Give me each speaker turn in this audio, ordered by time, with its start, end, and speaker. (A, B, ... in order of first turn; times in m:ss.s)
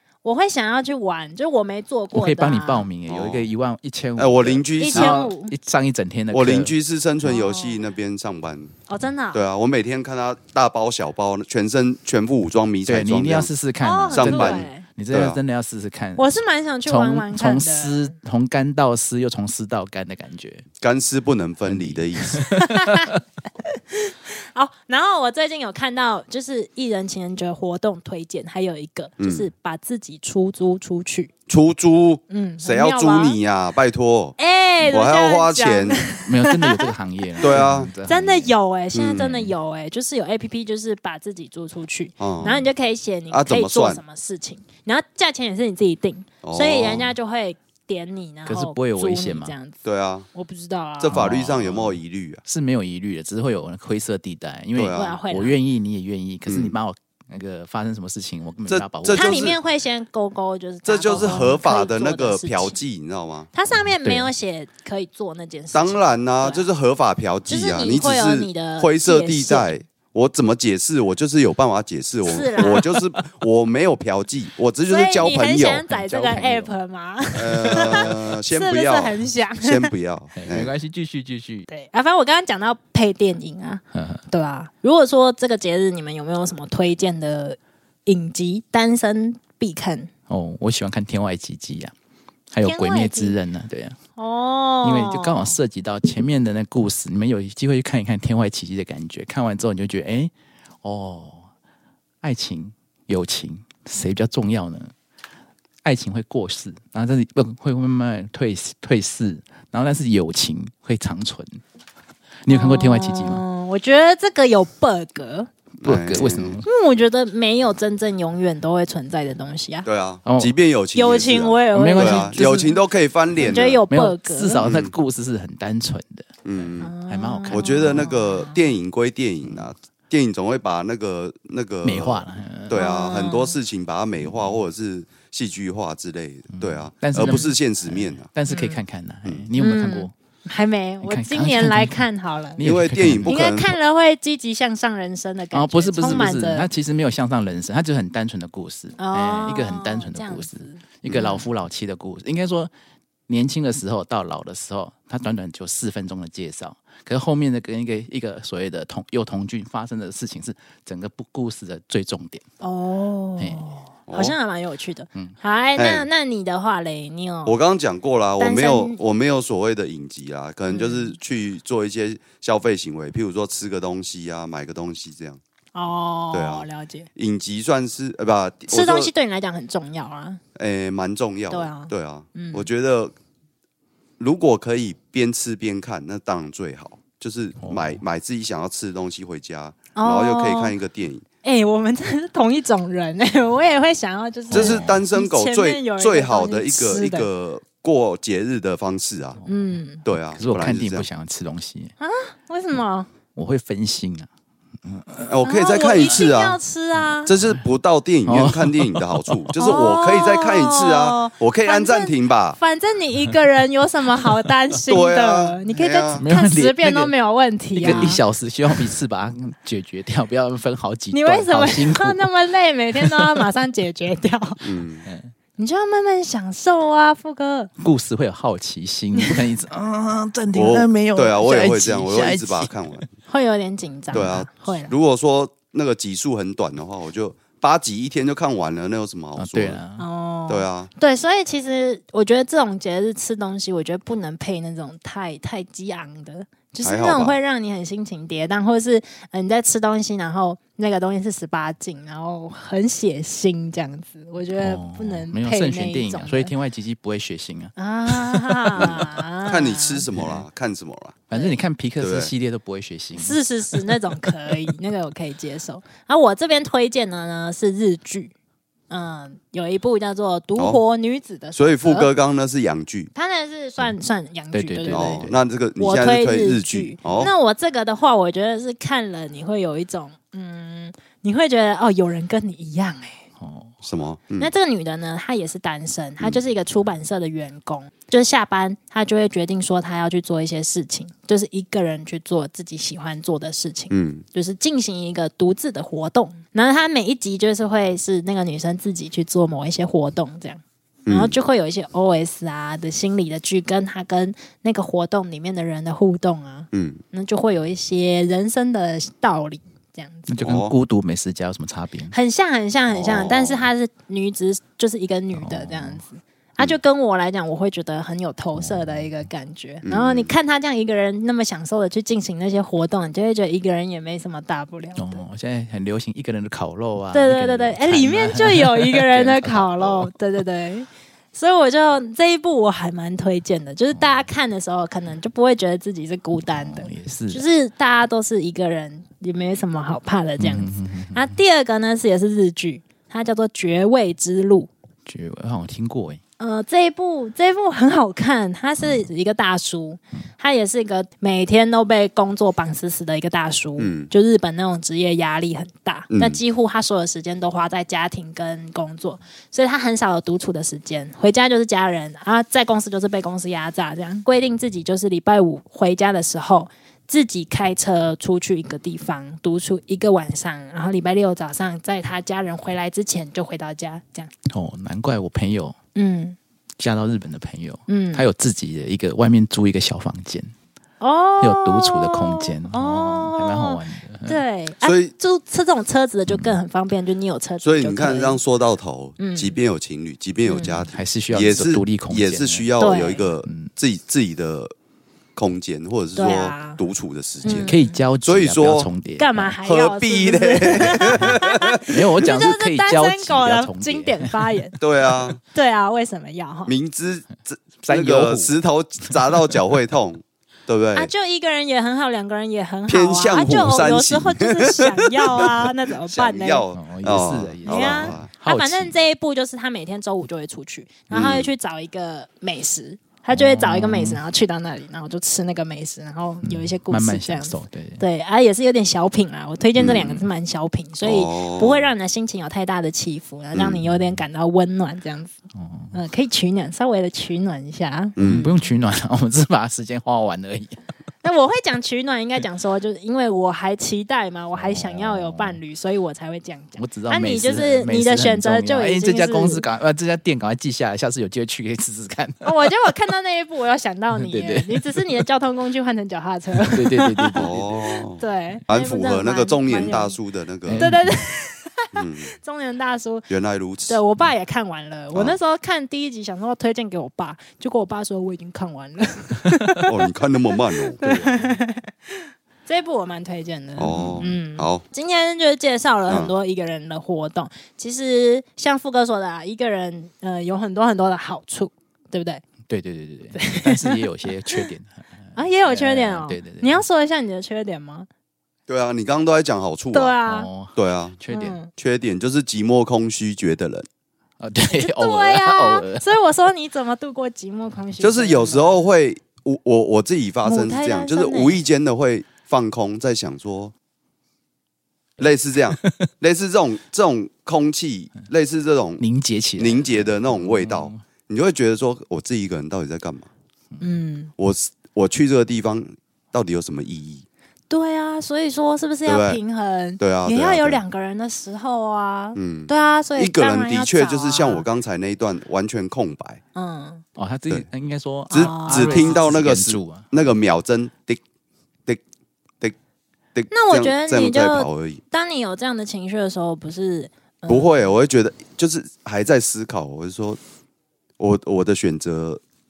0:00.2-0:02.9 A
0:02.1-0:06.7 B
0:03.1-0:03.5 C
0:04.2-0:05.2 C
0:04.8-0:05.5 A
0:06.3-0:08.7 C
0:07.2-0:07.8 A
0:08.9-0:09.4 A
0:09.3-0:13.5 C
0:12.9-0:16.3 B
0:13.8-0:14.9 A
0:14.1-0:15.4 C
0:16.2-0:18.2 A
0:16.9-0:20.7 B
0:20.8-0:22.4 C
0:21.6-0:23.1 B
0:22.5-0:31.3 A
0:29.2-0:29.5 C
0:31.5-0:36.1 C
0:32.3-0:33.4 A
0:34.4-0:37.5 A
0:36.2-0:38.5 B
0:37.4-0:37.9 C
0:38.1-0:49.8 A
0:38.9-0:39.3 C
0:39.2-0:39.5 B
0:42.2-0:42.7 C
0:43.3-0:44.0 C
0:46.4-0:47.1 C
0:48.5-0:49.5 B
0:49.8-0:50.3 C
0:50.3-0:51.2 A
0:51.0-0:52.4 C
0:51.1-0:59.5 B
0:54.8-0:55.2 C
0:54.9-0:55.6 A
0:56.5-0:56.8 C
0:58.7-0:59.6 C
0:59.1-1:02.8 A
1:00.9-1:03.5 C
1:01.1-1:01.5 B
1:03.5-1:06.7 A
1:04.0-1:04.3 B
1:05.7-1:15.8 C
1:07.5-1:09.7 A
1:12.2-1:12.9 A
1:14.9-1:19.9 A
1:15.8-1:16.8 B
1:17.4-1:20.7 C
1:17.7-1:18.1 B
1:20.4-1:21.7 B
1:21.7-1:30.1 A
1:23.9-1:24.2 B
1:30.3-1:31.9 B
1:32.5-1:34.0 B
1:32.6-1:33.4 A
1:34.2-1:35.6 A
1:34.8-1:40.3 B
1:40.8-1:41.5 B
1:42.2-1:44.9 B
1:45.8-1:51.6 B
1:52.4-1:53.4 B
1:52.5-1:55.5 A
1:55.8-1:56.6 C
1:55.8-1:56.7 B
1:56.6-1:59.9 A
1:59.8-2:03.8 C
2:00.3-2:00.6 B
2:00.9-2:02.7 A
2:01.7-2:02.7 B
2:03.4-2:04.7 A
2:03.4-2:06.3 B
2:04.6-2:04.9 C
2:06.4-2:06.9 C
2:06.8-2:08.6 A
2:06.8-2:08.1 B
2:07.5-2:18.3 C
2:11.8-2:12.8 B
2:12.7-2:13.6 A
2:14.2-2:14.5 B
2:16.5-2:20.1 B
2:17.2-2:17.5 A
2:18.5-2:18.8 A
2:19.6-2:22.6 A
2:21.0-2:22.0 B
2:22.6-2:23.4 B
2:22.6-2:23.8 C
2:23.3-2:26.7 A
2:25.5-2:32.7 B
2:29.0-2:31.4 A
2:33.3-2:42.4 B
2:42.6-2:47.6 A
2:44.1-2:44.4 C
2:45.8-2:46.1 C
2:47.5-2:55.4 C
2:48.4-2:49.0 A
2:50.7-2:51.2 A
2:55.8-2:57.1 A
2:56.3-2:59.1 C
2:58.7-3:00.4 A
3:00.6-3:03.1 C
3:01.5-3:02.7 A
3:04.2-3:11.2 C
3:07.6-3:08.0 B
3:10.0-3:10.8 A
3:11.4-3:17.3 A
3:14.5-3:15.0 B
3:14.5-3:19.4 C
3:19.4-3:19.8 B
3:19.5-3:20.0 A
3:20.0-3:21.1 C
3:20.3-3:21.9 B
3:22.0-3:23.1 A
3:23.4-3:24.3 B
3:24.8-3:25.4 B
3:25.3-3:26.6 C
3:25.4-3:27.3 A
3:27.0-3:27.6 B
3:27.3-3:32.6 C
3:28.2-3:29.5 B
3:29.6-3:38.2 A
3:34.9-3:36.2 C
3:36.2-3:37.1 B
3:37.8-3:42.3 B
3:37.9-3:38.2 C
3:41.1-3:44.6 A
3:43.0-3:43.5 B
3:44.6-3:45.0 C
3:45.0-3:45.3 B
3:45.6-3:47.7 A
3:47.8-3:52.7 B
3:50.5-3:53.1 C
3:53.3-3:54.9 A
3:54.1-3:59.8 C
3:59.4-4:00.0 B
4:00.0-4:16.5 A
4:00.5-4:00.9 C
4:06.8-4:07.4 C
4:14.6-4:19.1 B
4:17.8-4:20.1 A
4:18.8-4:21.2 C
4:20.1-4:20.4 B
4:21.3-4:24.0 B
4:22.0-4:22.3 C
4:23.2-4:28.3 A
4:28.9-4:32.1 A
4:30.6-4:30.8 C
4:31.6-4:33.1 C
4:33.2-4:43.3 A
4:34.5-4:35.4 B
4:34.9-4:37.3 C
4:43.4-4:43.7 B
4:43.8-4:44.5 C
4:44.4-5:10.3 A
4:53.9-4:54.2 C
5:01.1-5:01.4 C
5:06.7-5:07.0 C
5:10.3-5:12.2 B
5:10.4-5:10.8 C
5:12.1-5:25.2 A
5:12.9-5:13.7 C
5:15.3-5:16.0 B
5:18.6-5:19.1 B
5:19.8-5:20.3 C
5:25.0-5:30.1 B
5:27.1-5:44.7 A
5:36.4-5:37.4 B
5:40.4-5:41.3 B
5:45.1-5:46.2 B
5:46.4-6:14.3 A
5:53.8-5:54.1 C
5:56.1-5:56.4 C
6:14.5-6:15.8 B
6:16.0-6:16.4 A
6:16.8-6:20.5 B
6:17.9-6:18.3 A
6:21.0-6:28.4 A
6:21.4-6:24.4 B
6:24.8-6:25.1 C
6:26.3-6:26.6 B
6:27.6-6:34.7 C
6:29.2-6:29.6 A
6:30.5-6:30.8 A
6:30.9-6:33.7 B
6:32.8-6:33.2 A
6:35.4-6:38.9 C
6:36.2-6:36.8 A
6:37.4-6:38.0 A
6:37.4-6:39.5 B
6:39.2-6:44.8 A
6:39.6-6:41.8 C
6:41.9-6:44.6 B
6:44.8-6:45.4 C
6:45.5-6:46.7 A
6:46.7-6:51.1 C
6:47.8-6:48.5 B
6:49.1-6:49.4 B
6:51.0-6:56.6 A
6:52.9-6:58.3 C
6:56.7-6:59.0 B
6:57.7-7:15.4 A
7:01.1-7:01.5 C
7:03.3-7:04.2 B
7:06.4-7:08.0 B
7:09.8-7:10.2 C
7:11.0-7:11.9 C
7:13.5-7:13.8 C
7:15.6-7:16.0 B
7:15.9-7:18.7 A
7:18.2-7:18.5 C
7:18.2-7:20.8 B
7:21.2-7:29.7 A
7:24.6-7:25.6 B
7:26.8-7:32.5 B
7:32.4-7:37.5 A
7:34.2-7:35.2 B
7:36.6-7:37.8 B
7:37.4-7:40.9 C
7:38.1-7:40.2 A
7:40.7-7:41.2 B
7:40.8-7:43.3 A
7:41.9-7:42.3 C
7:43.3-7:44.0 C
7:43.9-7:49.9 A
7:49.9-7:51.0 C
7:50.9-8:02.4 A
7:51.0-7:51.5 B
7:53.8-7:54.8 C
7:53.9-7:54.2 B
7:56.1-7:56.3 C
8:02.7-8:06.8 B
8:03.4-8:04.6 A
8:05.4-8:08.1 A
8:08.7-8:10.2 C
8:09.9-8:10.5 A
8:10.2-8:11.6 B
8:10.8-8:11.2 C
8:11.3-8:11.7 A
8:11.8-8:13.9 C
8:14.4-8:16.1 B
8:14.7-8:18.8 A
8:18.0-8:23.7 C
8:20.4-8:21.6 A
8:25.2-8:29.0 C
8:29.0-8:31.0 B
8:29.6-8:33.3 C
8:33.8-8:34.3 A
8:34.4-8:37.2 C
8:37.7-8:44.7 A
8:39.1-8:39.4 C
8:40.0-8:40.8 C
8:42.4-8:46.4 C
8:46.6-8:47.0 A
8:47.2-8:50.1 B
8:48.3-8:49.3 A
8:48.3-8:51.2 C
8:53.4-8:55.0 C
8:53.5-8:57.8 A
8:57.5-9:00.4 C
9:01.2-9:02.4 C